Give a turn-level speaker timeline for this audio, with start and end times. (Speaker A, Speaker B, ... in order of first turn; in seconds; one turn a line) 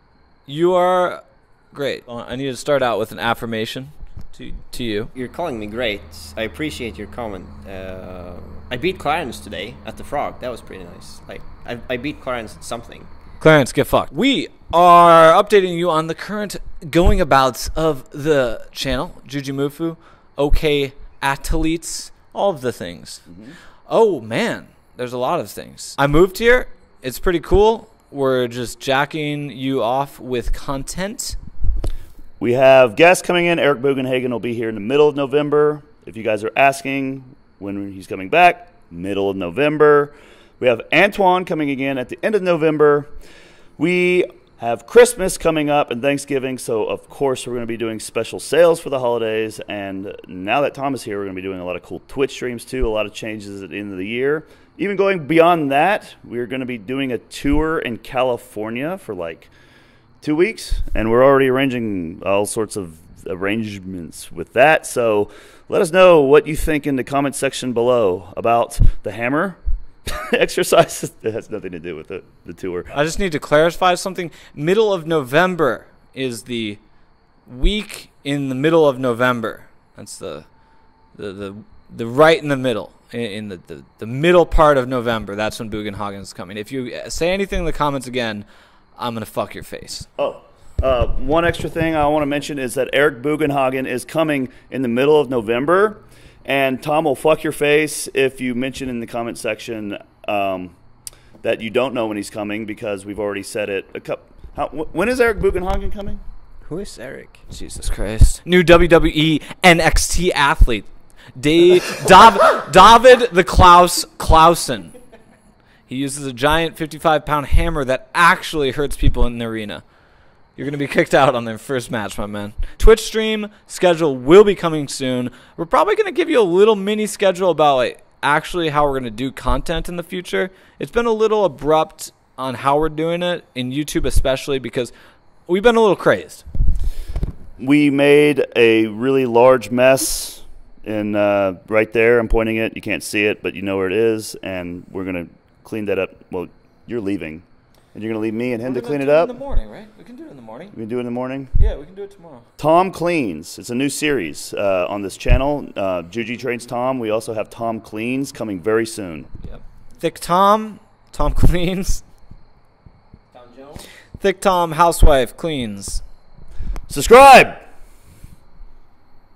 Speaker A: 0.5-5.1
Speaker B: 5.1-13.1
Speaker A: 13.4-23.2
Speaker C: 23.3-23.6
Speaker A: 23.9-31.4
Speaker C: 32.4-43.1
Speaker C: 43.8-59.5
Speaker C: 60.2-72.9
Speaker A: 72.9-76.8
Speaker A: 77.5-80.5
Speaker A: 81.1-88.4
Speaker A: 89.0-90.1
Speaker C: 90.2-100.7
Speaker C: 101.4-106.2
Speaker B: 106.6-107.4
Speaker A: 107.5-115.0
Speaker A: 115.9-119.8
Speaker A: 120.5-134.9
Speaker A: 135.5-136.4
Speaker C: 137.6-149.3
Speaker A: 148.6-150.8
Speaker C: 150.7-151.5
Speaker A: 151.6-152.4
Speaker C: 152.6-159.3
Speaker A: 159.4-162.0
Speaker B: 163.3-163.9
Speaker A: 164.2-166.0
Speaker C: 166.9-167.6